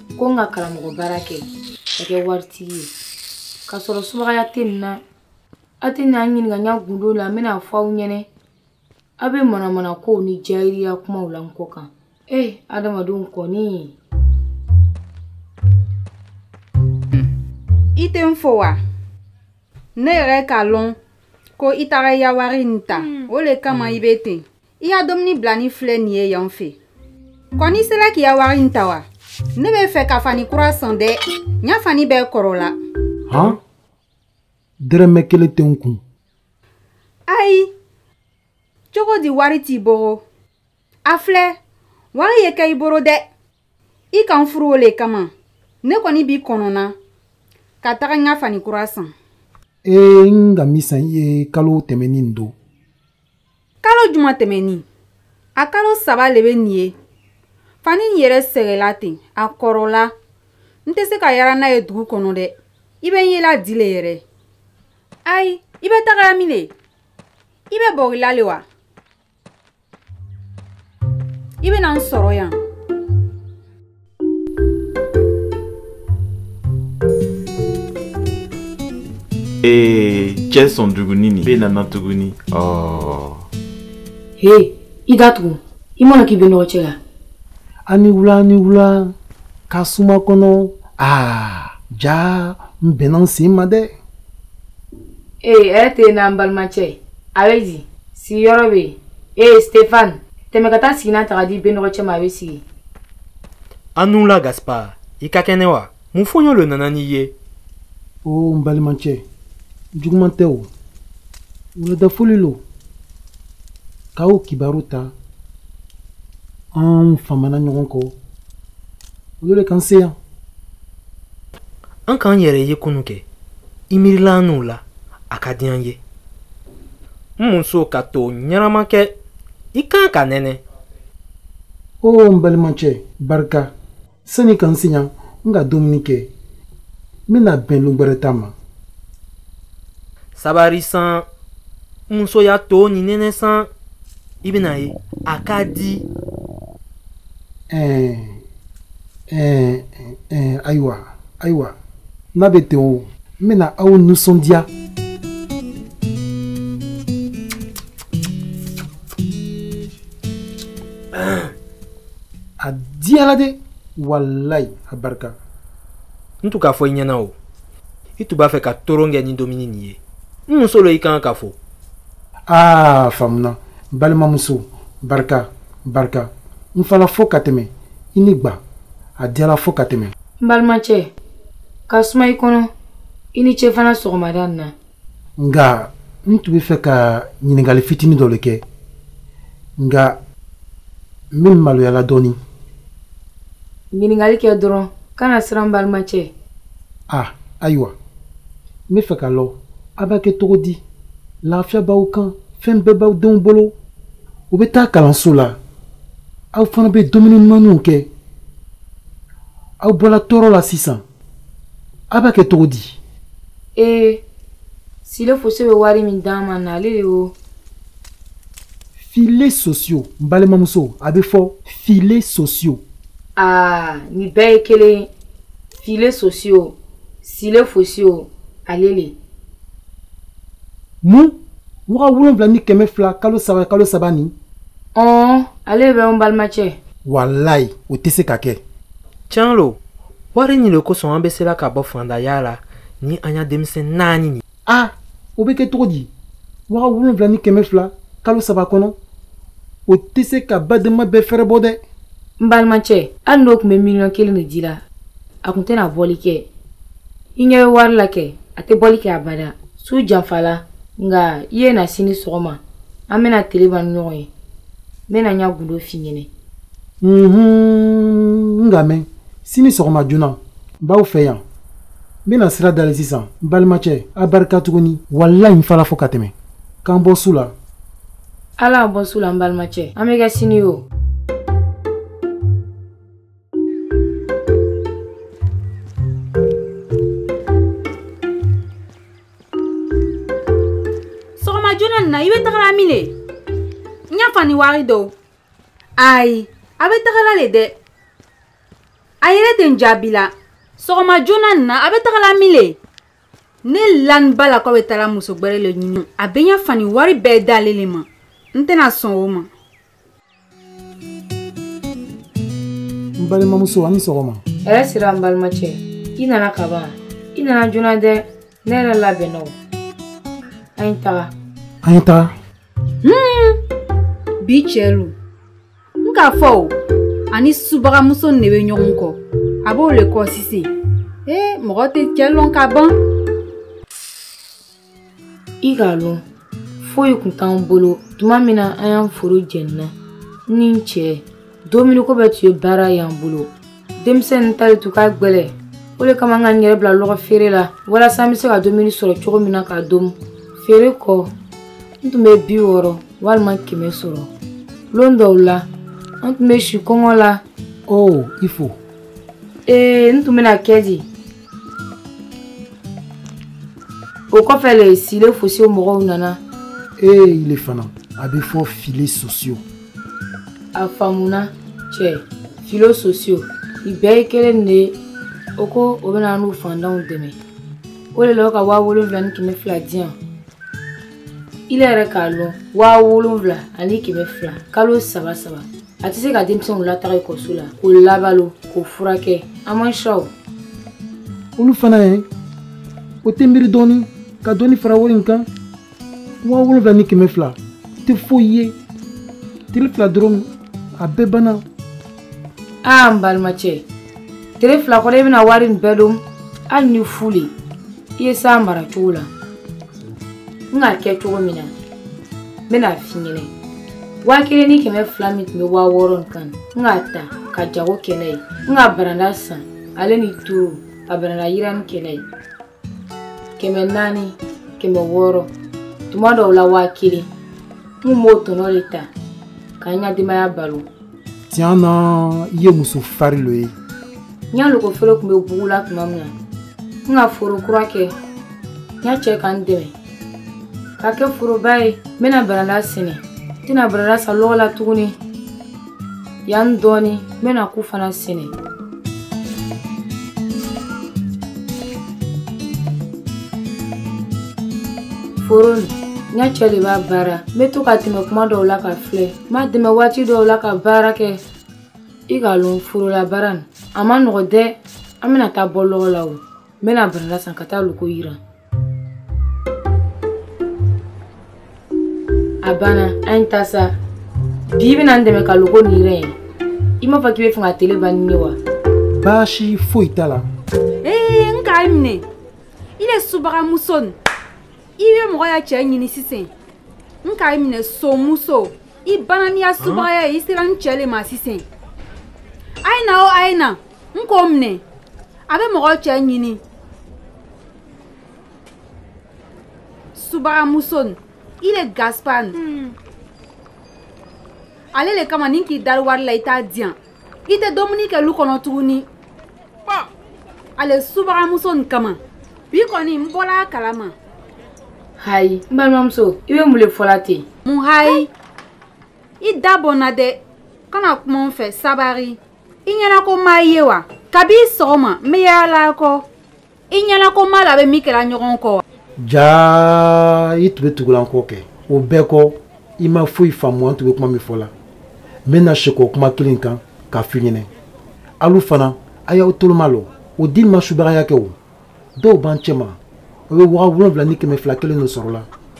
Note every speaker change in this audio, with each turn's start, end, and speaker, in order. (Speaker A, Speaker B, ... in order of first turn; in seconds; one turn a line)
Speaker A: 0.1-2.9
Speaker A: 3.7-5.0
Speaker A: 5.8-8.3
Speaker A: 9.2-13.9
Speaker B: 17.9-18.8
Speaker B: 19.9-20.9
Speaker B: 21.6-26.8
Speaker B: 27.6-32.8
Speaker C: 33.3-33.6
Speaker C: 34.8-36.0
Speaker B: 37.3-37.7
Speaker B: 38.9-40.2
Speaker B: 41.0-41.6
Speaker B: 42.1-43.2
Speaker B: 44.1-45.3
Speaker B: 45.8-46.9
Speaker B: 47.8-49.1
Speaker C: 49.8-52.5
Speaker B: 53.8-54.8
Speaker B: 55.6-56.9
Speaker B: 57.8-60.1
Speaker B: 60.9-64.2
Speaker B: 65.2-66.7
Speaker B: 67.7-68.6
Speaker B: 71.6-72.6
Speaker D: 79.6-83.4
Speaker A: 84.4-87.0
Speaker C: 87.9-89.1
Speaker C: 89.7-93.9
Speaker A: 95.4-102.6
Speaker E: 104.0-107.3
Speaker C: 108.2-109.2
Speaker C: 110.0-110.7
Speaker C: 111.8-112.6
Speaker C: 114.2-115.1
Speaker C: 116.7-118.1
Speaker C: 119.4-120.2
Speaker E: 122.1-123.2
Speaker E: 123.9-126.0
Speaker E: 127.4-129.1
Speaker E: 129.7-130.6
Speaker C: 132.0-133.7
Speaker C: 134.2-136.3
Speaker C: 137.3-138.5
Speaker E: 140.3-141.2
Speaker E: 142.1-143.7
Speaker E: 144.4-146.0
Speaker C: 147.7-148.4
Speaker C: 149.3-151.7
Speaker C: 152.3-154.7
Speaker E: 161.1-161.5
Speaker C: 162.6-165.3
Speaker E: 166.4-167.3
Speaker E: 168.2-171.6
Speaker C: 172.5-178.6
Speaker C: 179.2-180.1
Speaker A: 180.4-181.1
Speaker A: 181.9-182.7
Speaker A: 183.3-184.7
Speaker C: 185.4-188.6
Speaker C: 189.8-190.2
Speaker C: 191.3-192.4
Speaker A: 193.9-196.3
Speaker C: 197.1-197.9
Speaker C: 198.9-200.8
Speaker C: 201.4-203.7
Speaker C: 204.5-205.6
Speaker C: 206.5-208.1
Speaker C: 209.8-211.0
Speaker C: 212.1-213.0
Speaker A: 213.8-214.2
Speaker A: 215.0-217.3
Speaker C: 219.0-222.8
Speaker A: 223.4-225.1
Speaker A: 225.8-229.2
Speaker C: 231.0-231.3
Speaker C: 231.9-234.3
Speaker A: 234.9-236.8
Speaker C: 237.0-238.6
Speaker E: 239.3-239.8
Speaker E: 240.3-244.4
Speaker C: 244.7-246.1
Speaker C: 246.7-248.9
Speaker C: 249.9-251.8
Speaker A: 252.4-254.8
Speaker A: 255.4-256.5
Speaker A: 257.4-264.3
Speaker A: 265.1-266.3
Speaker C: 267.0-271.4
Speaker C: 272.2-276.3
Speaker C: 276.8-277.5
Speaker A: 278.6-280.8
Speaker B: 291.4-293.1
Speaker B: 294.1-295.1
Speaker B: 296.0-297.8
Speaker B: 299.2-302.8
Speaker B: 303.6-309.5
Speaker C: 313.2-314.4
Speaker A: 314.6-319.6
Speaker A: 320.8-321.3
Speaker C: 321.8-322.3
Speaker B: 323.0-323.6
Speaker B: 324.4-325.1
Speaker B: 326.0-326.7
Speaker B: 327.3-330.7
Speaker B: 331.2-332.9
Speaker A: 335.6-336.2
Speaker A: 336.8-339.9
Speaker A: 340.5-351.3
Speaker A: 352.0-354.3
Speaker A: 354.9-355.7
Speaker A: 356.2-357.4
Speaker C: 357.9-358.8
Speaker A: 359.7-361.1
Speaker A: 364.3-366.4
Speaker C: 367.0-369.6
Speaker A: 370.7-374.9
Speaker A: 375.6-377.4
Speaker A: 378.1-380.1
Speaker A: 381.7-390.3
Speaker C: 391.6-392.2
Speaker C: 393.2-395.5
Speaker C: 396.4-398.8
Speaker C: 399.7-400.5
Speaker C: 401.0-401.6
Speaker A: 402.8-403.9
Speaker A: 404.6-407.5
Speaker A: 408.2-409.3
Speaker A: 410.7-411.7
Speaker A: 412.7-413.5
Speaker A: 414.2-422.2
Speaker A: 423.6-425.5
Speaker A: 426.1-427.3
Speaker A: 428.0-429.1
Speaker A: 429.8-430.9
Speaker C: 431.5-433.7
Speaker A: 434.5-436.3
Speaker A: 437.0-438.1
Speaker A: 439.0-439.9
Speaker A: 441.0-445.1
Speaker A: 446.4-448.5
Speaker A: 455.4-461.4
Speaker A: 462.3-468.4
Speaker A: 472.6-473.9
Speaker A: 474.7-476.4
Speaker A: 477.0-478.6
Speaker C: 479.1-480.4
Speaker B: 481.0-482.2
Speaker B: 483.0-484.1
Speaker B: 485.0-486.5
Speaker B: 487.2-491.6
Speaker E: 489.8-490.1
Speaker B: 492.8-494.8
Speaker B: 495.5-496.6
Speaker B: 500.1-502.9
Speaker B: 504.9-509.1
Speaker B: 510.8-512.2
Speaker B: 512.7-514.1
Speaker A: 515.2-517.5
Speaker B: 517.6-518.3
Speaker B: 519.4-526.3
Speaker B: 526.9-528.8
Speaker C: 529.2-534.7
Speaker C: 535.5-537.7
Speaker C: 538.4-541.5
Speaker C: 542.1-543.0
Speaker C: 543.5-545.5